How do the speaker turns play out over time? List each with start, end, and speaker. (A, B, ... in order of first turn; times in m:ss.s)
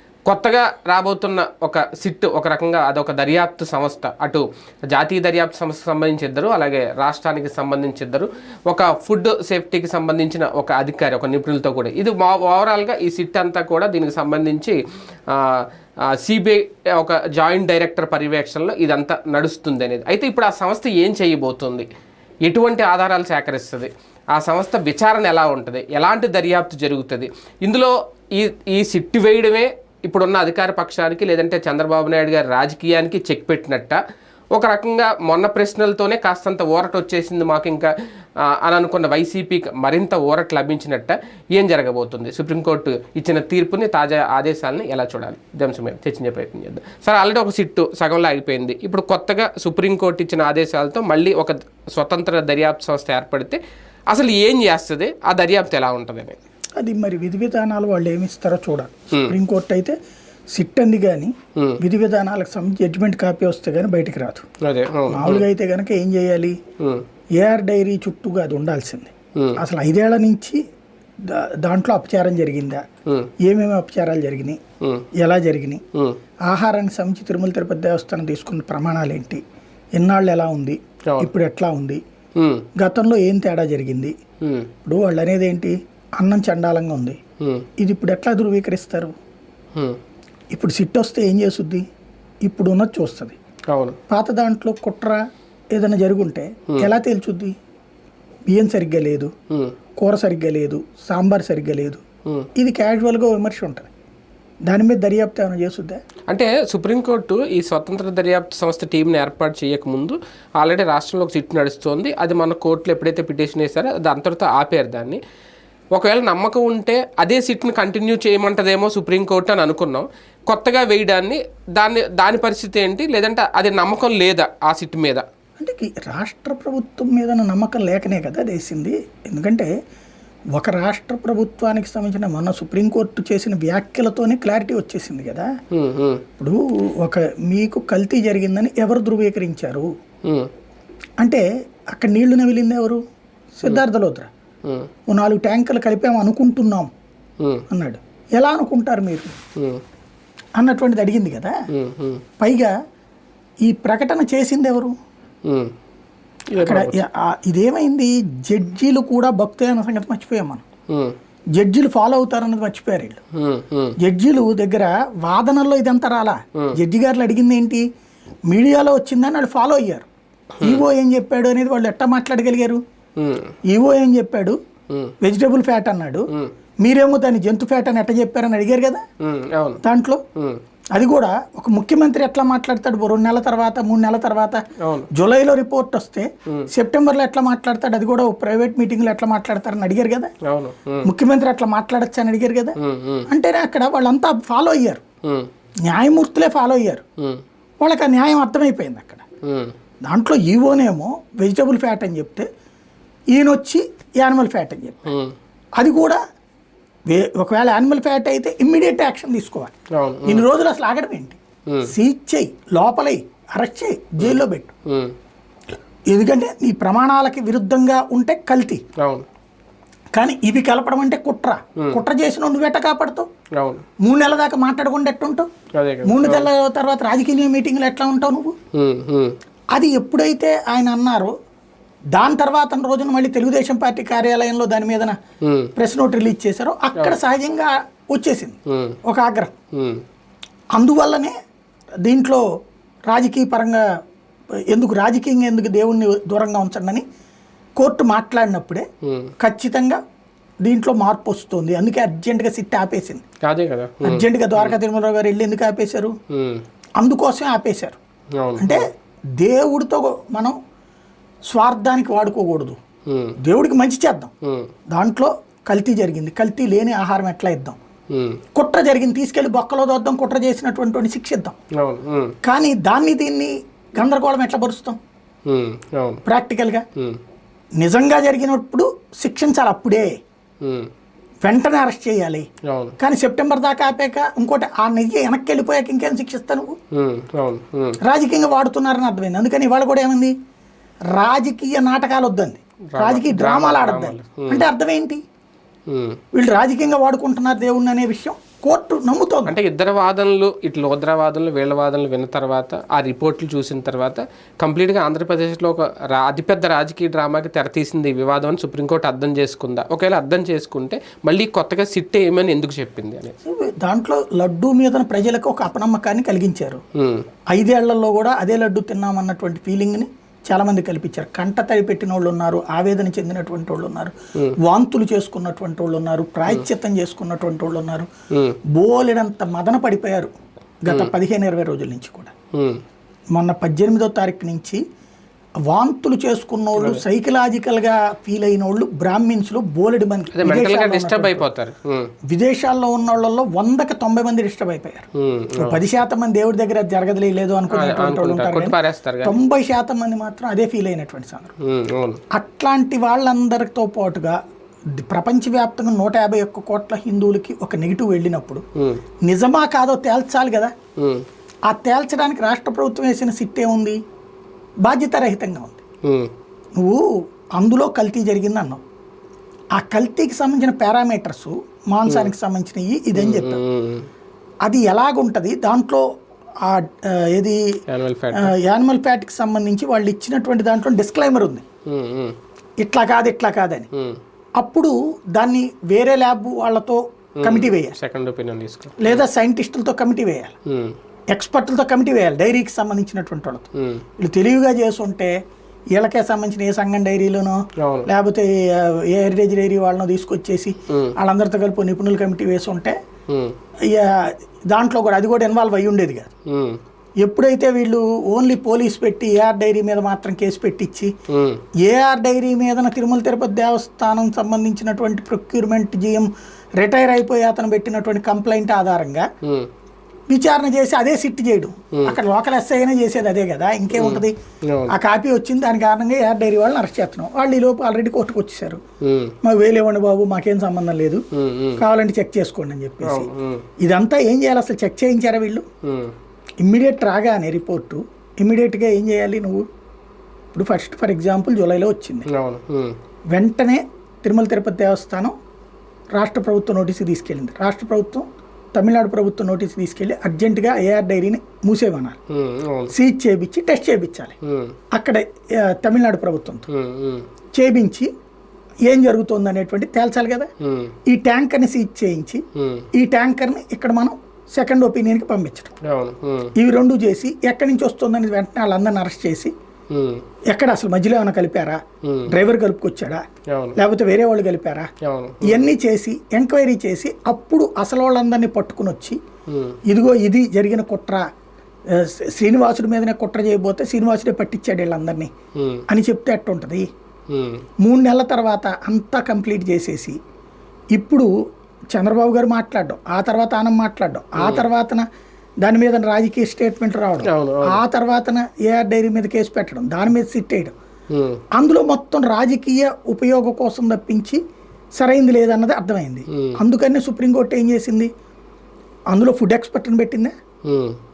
0:00.3-0:14.8 A
0:15.3-0:21.9 A
0:22.4-0:34.0 A
0:34.5-0:37.9 A
0:38.4-0:53.6 A
0:54.1-0:56.4 A
0:56.8-1:00.0 B
1:00.6-1:04.4 B
1:04.6-1:05.5 A
1:05.1-1:06.6 B
1:07.4-1:10.6 B
1:11.3-1:12.8 B
1:13.4-1:14.6 B
1:15.2-1:15.8 B
1:16.5-1:19.4 B
1:20.0-1:22.0 B
1:22.4-1:22.7 A
1:22.8-1:24.1 B
1:24.4-1:24.7 A
1:24.9-1:27.2 B
1:27.4-1:27.7 A
1:27.8-1:29.1 B
1:30.5-1:31.8 B
1:32.5-1:33.4 B
1:33.7-1:34.0 A
1:34.1-1:35.2 B
1:35.7-1:37.5 B
1:38.5-1:39.3 B
1:40.0-1:42.0 B
1:42.6-1:43.9 B
1:44.7-1:46.0 B
1:46.3-1:55.2 A
1:56.0-2:05.2 A
2:05.6-2:09.7 B
2:10.6-2:15.5 B
2:15.7-2:16.2 A
2:16.4-2:19.9 B
2:22.0-2:23.0 B
2:23.6-2:24.3 B
2:25.1-2:26.9 B
2:27.7-2:29.4 B
2:29.6-2:29.8 A
2:30.6-2:31.5 B
2:31.7-2:32.2 A
2:32.4-2:32.7 B
2:33.7-2:34.9 B
2:35.5-2:35.7 A
2:36.5-2:37.0 A
2:36.6-2:40.6 B
2:40.9-2:41.2 A
2:41.6-2:43.2 B
2:43.4-2:44.0 A
2:44.0-2:47.8 B
2:48.5-2:50.1 B
2:50.6-2:50.8 A
2:50.6-2:52.8 B
2:53.2-2:53.5 A
2:53.7-2:54.6 B
2:55.2-2:56.3 B
2:56.8-2:59.0 B
2:59.2-2:59.8 A
2:59.8-3:00.2 B
3:00.9-3:04.6 B
3:04.8-3:05.1 A
3:05.1-3:10.3 B
3:10.5-3:11.1 A
3:11.0-3:12.8 B
3:12.8-3:13.3 A
3:13.3-3:15.0 B
3:15.9-3:17.0 B
3:17.8-3:19.2 B
3:19.5-3:19.7 A
3:20.1-3:22.5 B
3:23.3-3:25.1 B
3:25.1-3:25.3 A
3:25.8-3:26.2 B
3:27.1-3:29.7 B
3:30.0-3:30.5 A
3:30.3-3:34.7 B
3:34.2-3:35.1 A
3:36.1-3:38.8 B
3:39.0-3:39.2 A
3:40.2-3:43.3 B
3:43.6-3:43.8 A
3:44.0-3:45.5 B
3:45.8-3:46.5 A
3:46.0-3:48.5 B
3:48.7-3:49.4 A
3:49.7-3:51.3 B
3:52.1-3:55.2 B
3:55.4-3:55.7 A
3:55.8-3:59.5 B
3:58.7-3:59.0 A
3:59.8-4:00.0 A
4:00.8-4:01.3 B
4:02.0-4:02.4 B
4:03.1-4:03.8 B
4:04.7-4:07.0 B
4:07.8-4:08.8 B
4:09.0-4:09.3 A
4:09.4-4:10.0 B
4:10.6-4:13.2 B
4:13.5-4:14.8 A
4:14.0-4:16.1 B
4:16.3-4:16.6 A
4:17.0-4:18.0 B
4:18.4-4:18.8 A
4:18.6-4:18.8 B
4:19.4-4:20.6 B
4:21.5-4:22.8 B
4:23.1-4:23.4 A
4:23.4-4:24.3 B
4:24.4-4:24.7 A
4:24.9-4:27.8 B
4:28.1-4:28.4 A
4:28.6-4:31.6 B
4:31.8-4:32.4 A
4:32.4-4:35.0 B
4:35.5-4:36.2 A
4:36.3-4:36.8 B
4:37.8-4:40.1 B
4:40.6-4:40.9 A
4:41.4-4:42.4 B
4:42.7-4:43.0 A
4:43.0-4:46.7 B
4:46.9-4:48.0 A
4:48.0-4:50.4 B
4:51.1-4:55.2 B
4:52.9-4:54.7 A
4:55.9-4:56.2 A
4:56.3-4:59.6 B
4:59.5-5:13.4 A
5:13.4-5:16.8 B
5:17.0-5:17.3 A
5:17.5-5:28.1 B
5:28.3-5:28.6 A
5:28.8-5:32.3 B
5:30.9-5:31.1 A
5:32.6-5:32.8 A
5:33.4-5:34.8 B
5:35.7-5:41.5 B
5:36.8-5:37.0 A
5:40.3-5:42.1 A
5:42.3-5:45.0 B
5:45.2-5:45.8 A
5:45.6-5:51.5 B
5:47.7-5:49.4 A
5:51.6-5:52.2 A
5:52.3-5:54.4 B
5:55.0-5:58.6 B
5:59.3-6:00.7 B
6:01.0-6:01.2 A
6:01.7-6:04.0 B
6:04.8-6:05.8 B
6:06.1-6:06.3 A
6:07.6-6:08.8 B
6:09.8-6:13.6 B
6:12.1-6:12.3 A
6:13.2-6:14.1 A
6:14.7-6:16.0 B
6:16.6-6:17.6 B
6:17.9-6:18.5 A
6:18.3-6:21.6 B
6:21.9-6:22.4 A
6:22.8-6:23.9 B
6:23.9-6:24.2 A
6:24.6-6:28.0 B
6:27.4-6:29.2 A
6:29.0-6:30.5 B
6:30.7-6:31.0 A
6:31.3-6:33.7 B
6:33.8-6:34.0 A
6:34.2-6:35.3 B
6:36.0-6:43.0 B
6:37.8-6:38.1 A
6:43.3-6:43.6 A
6:43.9-6:46.3 B
6:46.5-6:46.8 A
6:47.2-6:51.1 B
6:51.3-6:51.6 A
6:51.8-6:56.3 B
6:56.8-6:59.3 B
7:00.3-7:04.3 B
7:03.9-7:05.0 A
7:04.9-7:08.8 B
7:09.0-7:09.4 A
7:09.4-7:11.2 B
7:11.3-7:11.8 A
7:11.8-7:13.3 B
7:13.0-7:13.7 A
7:13.8-7:15.6 B
7:15.8-7:16.1 A
7:16.6-7:19.6 B
7:20.5-7:22.3 B
7:22.3-7:23.0 A
7:23.3-7:25.3 B
7:26.2-7:32.2 B
7:32.3-7:32.9 A
7:32.9-7:34.3 B
7:34.4-7:34.8 A
7:34.9-7:36.7 B
7:36.7-7:37.3 A
7:37.6-7:38.1 B
7:38.9-7:40.5 B
7:40.6-7:41.0 A
7:41.1-7:42.4 B
7:42.6-7:42.9 A
7:43.0-7:45.7 B
7:45.9-7:46.5 A
7:46.6-7:49.5 B
7:49.9-7:50.2 A
7:50.5-7:53.2 B
7:52.1-7:52.3 A
7:53.5-7:53.8 A
7:53.8-7:54.9 B
7:55.0-7:55.7 A
7:55.4-7:59.2 B
7:59.5-7:59.8 A
7:59.9-8:01.2 B
8:01.9-8:05.3 B
8:05.6-8:05.8 A
8:05.9-8:06.8 B
8:07.3-8:07.6 A
8:07.8-8:10.2 B
8:10.9-8:11.3 B
8:11.9-8:15.1 B
8:14.4-8:14.7 A
8:15.6-8:20.7 B
8:17.3-8:17.8 A
8:21.1-8:21.4 A
8:21.5-8:24.4 B
8:25.0-8:28.1 B
8:26.3-8:26.6 A
8:29.1-8:30.3 B
8:30.7-8:31.0 A